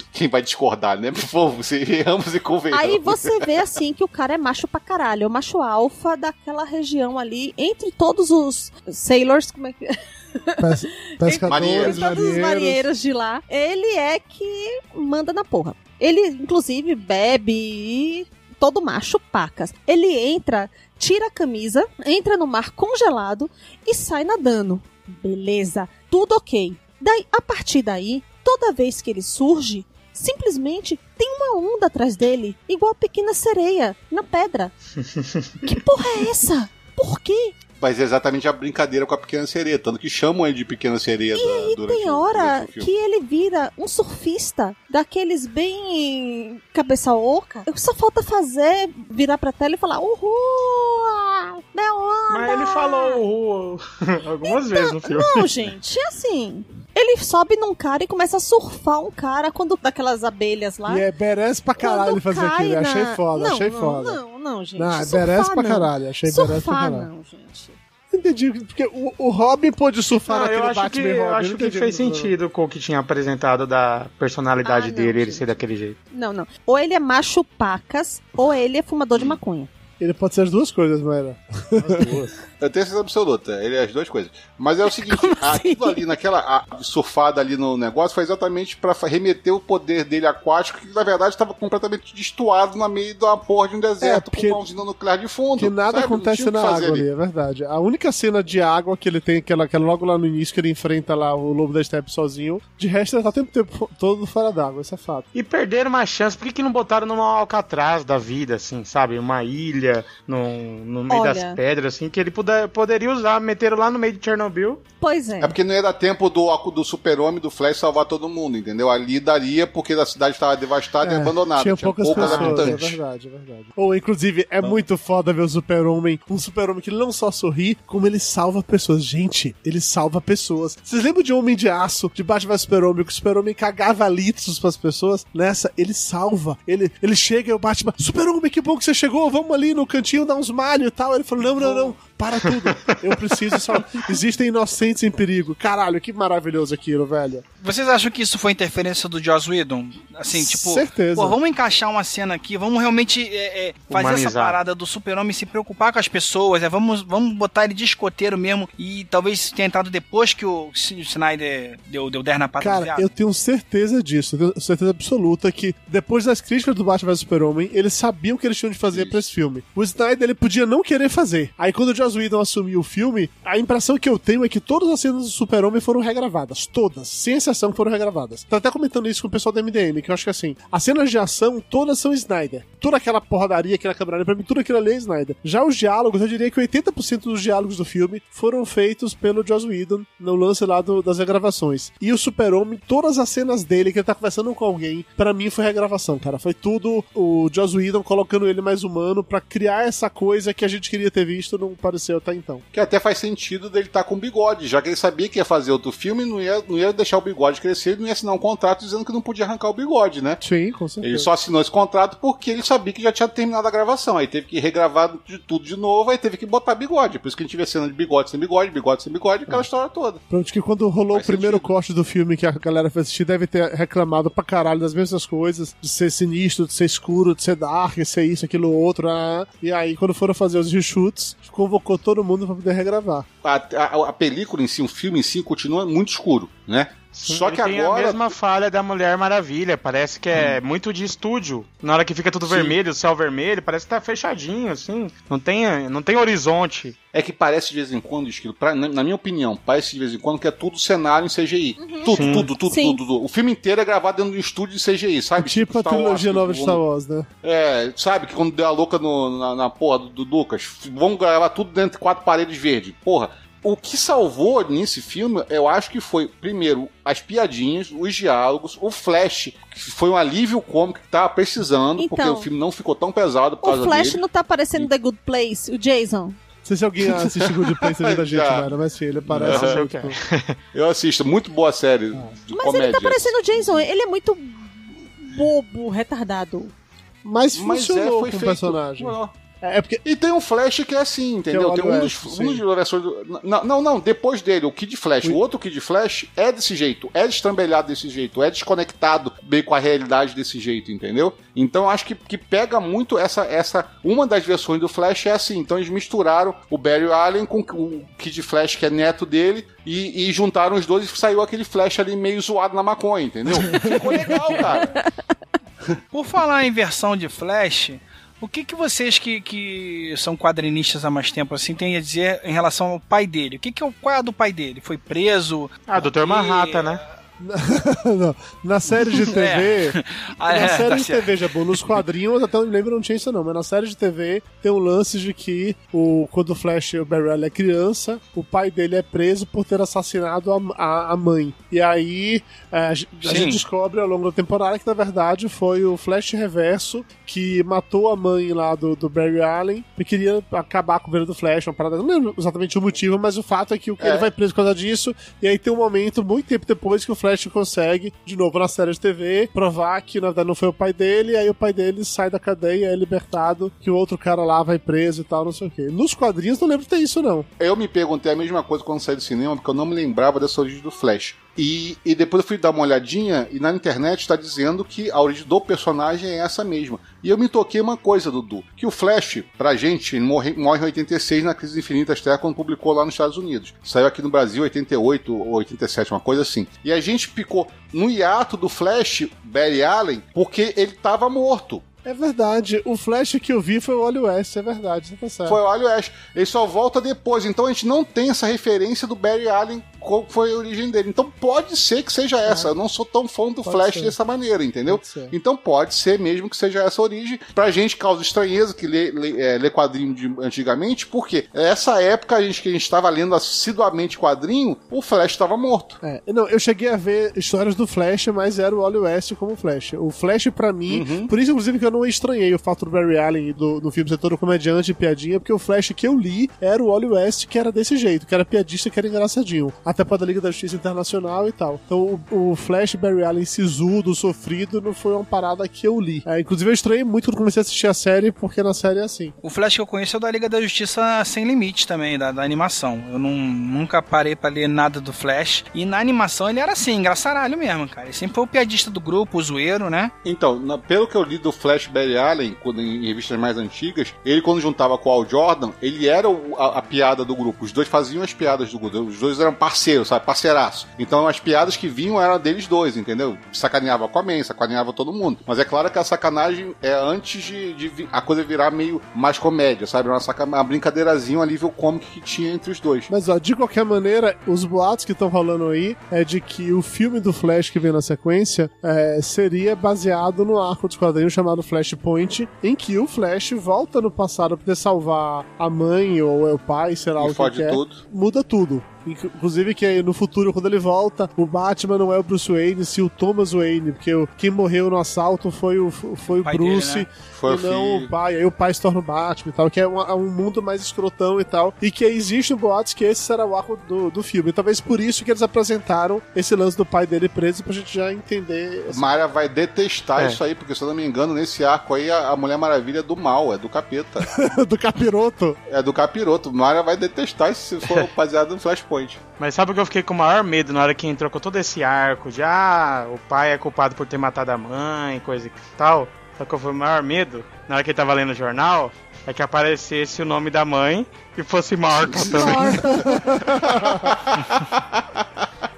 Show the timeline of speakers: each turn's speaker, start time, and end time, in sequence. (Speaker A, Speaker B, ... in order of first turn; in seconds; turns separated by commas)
Speaker A: 0.1-3.4, Speaker B: 2.7-34.7, Speaker C: 10.6-12.8, Speaker A: 11.5-12.0, Speaker D: 35.2-35.5, Speaker B: 35.6-37.6, Speaker A: 37.8-42.9, Speaker B: 41.3-53.2, Speaker D: 52.3-55.7, Speaker B: 54.4-61.1, Speaker C: 60.9-64.2, Speaker B: 61.8-67.8, Speaker C: 64.8-67.1, Speaker C: 68.1-72.3, Speaker D: 70.3-76.0, Speaker B: 74.6-75.5, Speaker B: 76.1-79.7, Speaker C: 80.0-82.2, Speaker D: 81.8-82.3, Speaker A: 82.6-97.0, Speaker B: 84.9-86.1, Speaker C: 94.0-94.6, Speaker C: 95.6-105.3, Speaker D: 105.3-114.8, Speaker B: 111.1-111.6, Speaker B: 115.0-115.6, Speaker A: 115.4-123.0, Speaker C: 121.0-147.4, Speaker D: 122.2-122.7, Speaker D: 142.5-143.0, Speaker D: 143.5-143.8, Speaker E: 147.6-163.1, Speaker C: 150.3-151.4, Speaker D: 153.9-154.6, Speaker C: 162.6-202.7, Speaker A: 168.9-169.2, Speaker A: 202.7-210.4, Speaker C: 210.4-211.3, Speaker A: 211.0-220.2, Speaker C: 220.3-233.3, Speaker A: 221.1-221.7, Speaker A: 233.4-238.2, Speaker D: 237.2-247.0, Speaker A: 242.5-242.8, Speaker A: 247.1-256.8, Speaker B: 251.8-253.0, Speaker D: 252.1-252.5, Speaker C: 255.4-257.3, Speaker A: 257.4-274.2, Speaker B: 272.0-272.5, Speaker B: 273.6-276.4, Speaker C: 276.6-280.2, Speaker A: 277.1-278.7, Speaker A: 279.3-279.9, Speaker D: 279.4-280.6, Speaker A: 280.7-283.4, Speaker B: 282.5-286.7, Speaker C: 287.2-290.0, Speaker A: 287.5-289.3, Speaker A: 290.1-314.9, Speaker C: 291.5-292.6, Speaker C: 313.6-314.4, Speaker E: 316.1-327.0, Speaker D: 325.9-327.0, Speaker C: 327.4-367.5, Speaker E: 329.1-331.8, Speaker E: 343.2-343.6, Speaker A: 354.0-354.3, Speaker A: 367.6-391.8, Speaker C: 392.1-395.6, Speaker A: 395.5-416.0, Speaker C: 402.4-402.7, Speaker C: 403.7-404.2, Speaker C: 404.9-405.4, Speaker C: 416.0-439.4, Speaker A: 420.9-421.3, Speaker E: 439.4-450.1, Speaker A: 450.2-473.1, Speaker C: 473.1-509.1, Speaker A: 487.2-488.0, Speaker E: 496.4-497.1, Speaker A: 497.3-498.1, Speaker A: 508.9-514.4, Speaker C: 514.3-515.6, Speaker A: 515.7-519.2, Speaker D: 517.8-518.1, Speaker D: 519.4-533.1, Speaker A: 532.1-532.6, Speaker C: 532.1-534.1, Speaker A: 533.8-535.0